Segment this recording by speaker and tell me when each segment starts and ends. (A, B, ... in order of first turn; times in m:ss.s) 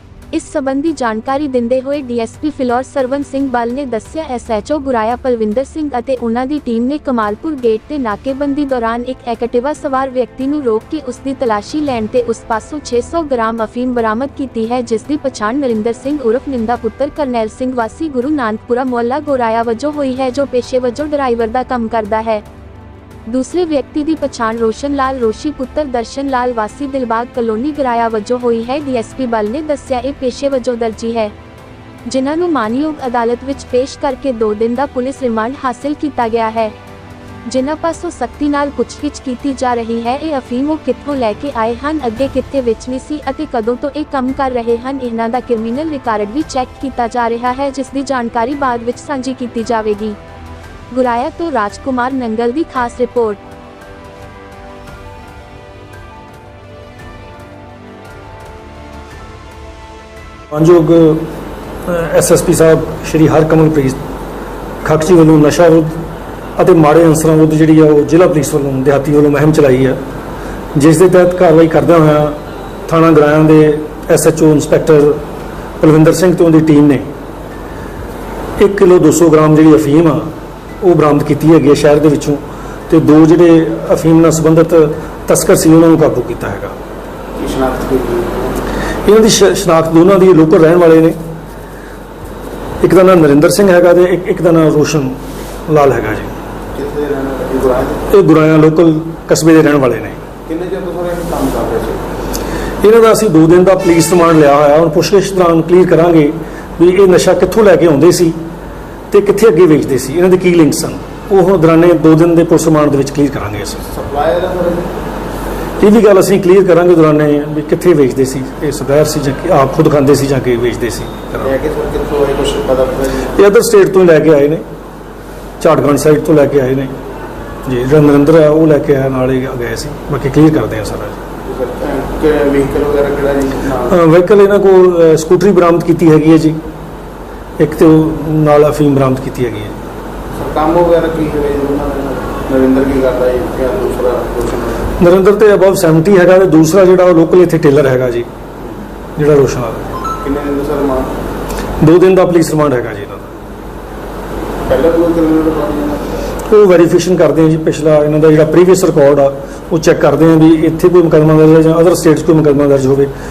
0:00.3-0:22.4 A
0:23.3-0:31.3 A
0:32.1-0:36.7 A
0:37.4-0:50.2 A
0:50.9-0:53.4 A
1:00.5-1:01.3 B
1:01.9-1:04.0 B
1:04.8-1:06.0 B
1:06.6-1:10.0 B
1:10.8-1:15.2 B
1:15.8-1:17.1 B
1:18.6-1:20.3 B
1:20.8-1:26.8 B
1:27.4-1:28.6 C
1:29.0-1:31.2 B
1:32.8-1:36.4 B
1:36.8-1:38.1 C
1:38.1-1:40.2 B
1:40.5-1:42.0 C
1:42.8-1:48.4 B
1:49.1-1:53.8 B
1:53.9-1:54.9 C
1:55.8-2:01.5 B
2:01.4-2:03.3 C
2:03.3-2:04.6 B
2:05.6-2:07.0 B
2:07.6-2:11.2 B
2:11.4-2:14.0 C
2:13.9-2:16.6 B
2:17.6-2:19.8 B
2:20.4-2:24.9 C
2:25.0-2:28.3 B
2:29.2-2:29.9 B
2:30.2-2:31.2 C
2:31.8-2:33.3 B
2:34.7-2:36.2 C
2:36.4-2:43.1 B